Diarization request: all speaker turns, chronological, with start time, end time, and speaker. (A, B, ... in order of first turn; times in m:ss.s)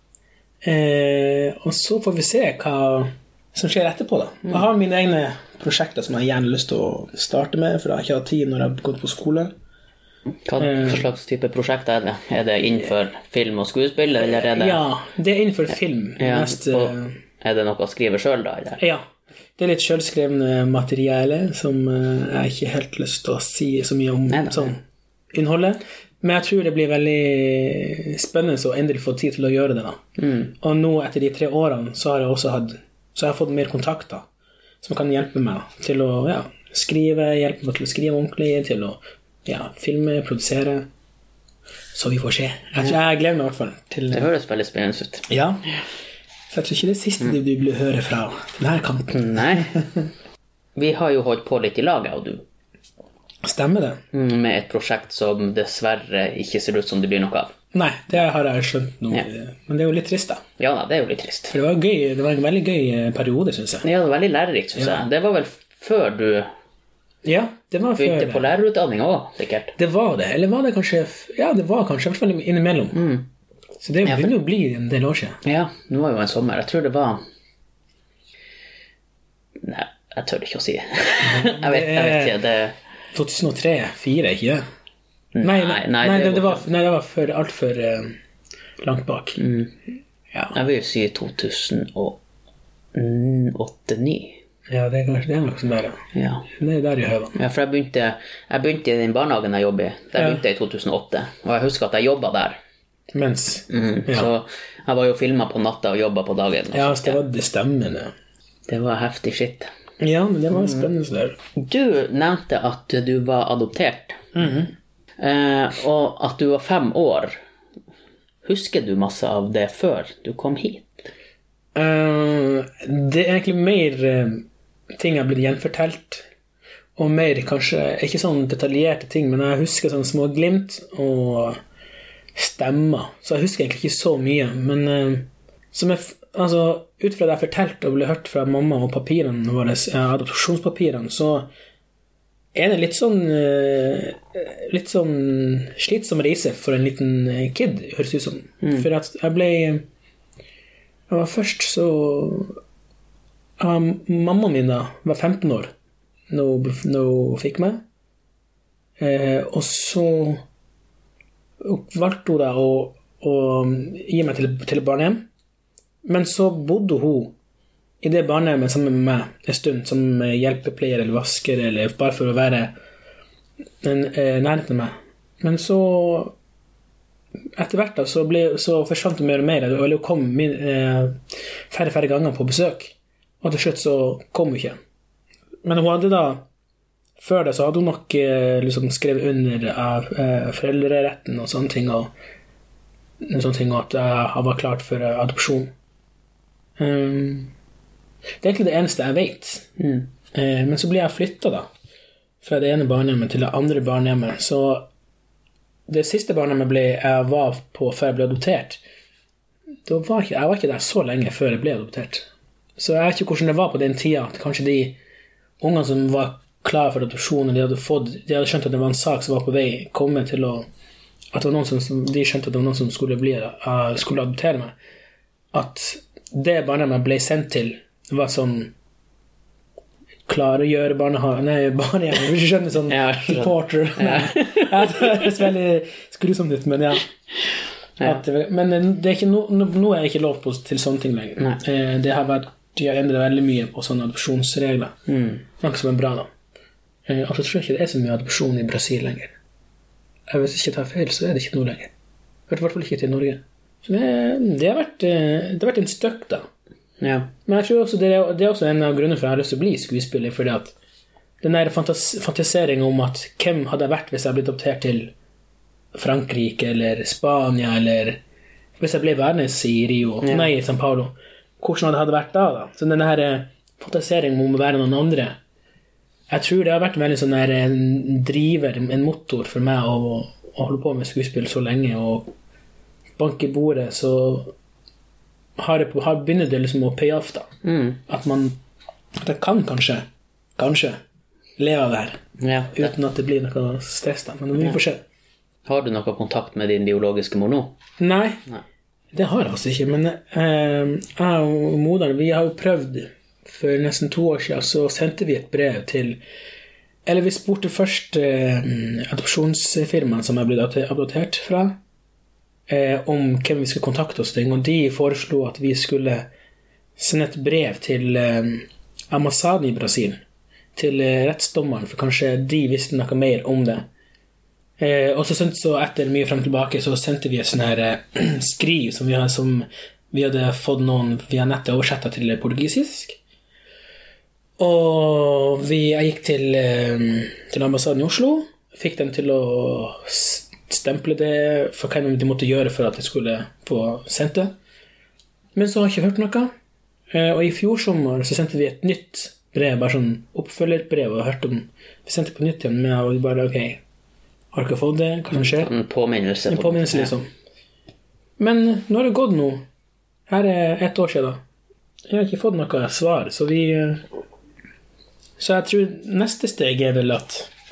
0:00.6-0:09.5 A
0:10.4-0:14.8 B
0:10.6-0:11.0 A
0:14.2-0:17.2 A
0:16.2-0:18.8 B
0:18.8-0:19.0 A
0:19.6-0:24.8 A
0:24.3-0:24.7 B
0:25.3-0:30.0 A
0:30.2-0:30.5 B
0:30.6-0:34.3 A
0:34.8-0:40.9 A
0:41.9-0:44.3 A
0:44.1-0:45.8 B
0:45.3-0:45.6 A
0:46.5-0:50.1 A
0:49.1-0:49.8 B
0:50.8-0:52.4 B
0:53.4-0:54.0 A
0:54.1-0:57.5 B
0:57.7-1:00.4 A
1:00.6-1:01.5 B
1:01.5-1:03.9 A
1:03.8-1:06.5 B
1:04.8-1:05.1 A
1:07.2-1:08.5 A
1:08.0-1:09.7 B
1:09.8-1:13.0 A
1:12.9-1:13.3 B
1:13.8-1:15.4 A
1:14.0-1:14.3 B
1:15.4-1:17.2 B
1:19.6-1:22.8 B
1:21.2-1:22.4 A
1:23.1-1:24.6 A
1:25.3-1:26.6 B
1:25.4-1:28.2 A
1:28.8-1:29.4 A
1:29.4-1:29.7 B
1:30.5-1:32.2 B
1:32.9-1:34.4 B
1:34.7-1:37.4 A
1:36.1-1:36.5 B
1:37.4-1:42.6 B
1:40.2-1:40.4 A
1:43.1-1:44.3 A
1:43.7-1:47.2 B
1:46.7-1:48.1 A
1:48.7-1:49.7 B
1:50.0-1:51.4 A
1:51.6-1:54.2 B
1:54.4-1:54.7 A
1:55.2-1:57.4 B
1:58.4-2:01.1 B
2:01.8-2:06.2 A
2:07.0-2:11.6 A
2:12.4-2:21.5 A
2:22.6-2:29.8 A
2:28.6-2:28.9 B
2:31.1-2:32.6 A
2:33.6-2:35.7 A
2:36.3-2:37.8 A
2:39.0-2:40.4 A
2:41.6-2:45.3 A
2:46.0-2:47.4 A
2:48.0-2:52.7 A
2:53.8-2:56.4 A
2:57.6-3:01.2 A
3:01.7-3:04.8 A
3:05.6-3:06.5 A
3:07.2-3:12.1 A
3:13.2-3:15.7 A
3:16.8-3:17.5 A
3:18.4-3:19.7 A
3:19.8-3:20.1 B
3:20.3-3:21.7 A
3:22.4-3:24.9 A
3:25.9-3:28.8 A
3:29.8-3:35.0 A
3:35.6-3:40.7 A
3:41.3-3:44.8 A
3:45.5-3:48.7 A
3:50.3-3:57.1 A
3:52.9-3:55.3 B
3:58.0-4:05.0 A
4:05.1-4:05.4 B
4:05.6-4:06.3 A
4:07.1-4:09.4 A
4:10.3-4:11.9 A
4:12.5-4:16.5 A
4:17.0-4:17.3 B
4:17.5-4:20.7 A
4:21.4-4:25.1 A
4:25.9-4:28.2 A
4:28.8-4:35.4 A
4:30.2-4:30.5 B
4:36.3-4:42.3 A
4:43.2-4:44.5 A
4:45.6-4:47.5 A
4:47.6-4:48.0 B
4:48.1-4:48.6 A
4:49.2-4:50.0 A
4:50.6-4:51.0 A
4:51.6-4:55.0 A
4:52.4-4:52.9 B
4:55.7-4:57.7 B
4:58.0-4:58.4 A
4:59.1-5:06.2 A
5:07.1-5:11.8 A
5:12.7-5:16.3 A
5:17.0-5:20.2 A
5:20.8-5:23.9 A
5:24.8-5:33.2 A
5:34.6-5:44.5 A
5:45.6-5:46.5 A
5:47.1-5:53.8 A
5:54.5-5:55.7 A
5:55.3-5:57.1 B
5:56.5-5:57.3 A
5:58.4-5:59.6 A
6:00.3-6:01.4 A
6:02.1-6:04.1 A
6:05.4-6:07.5 A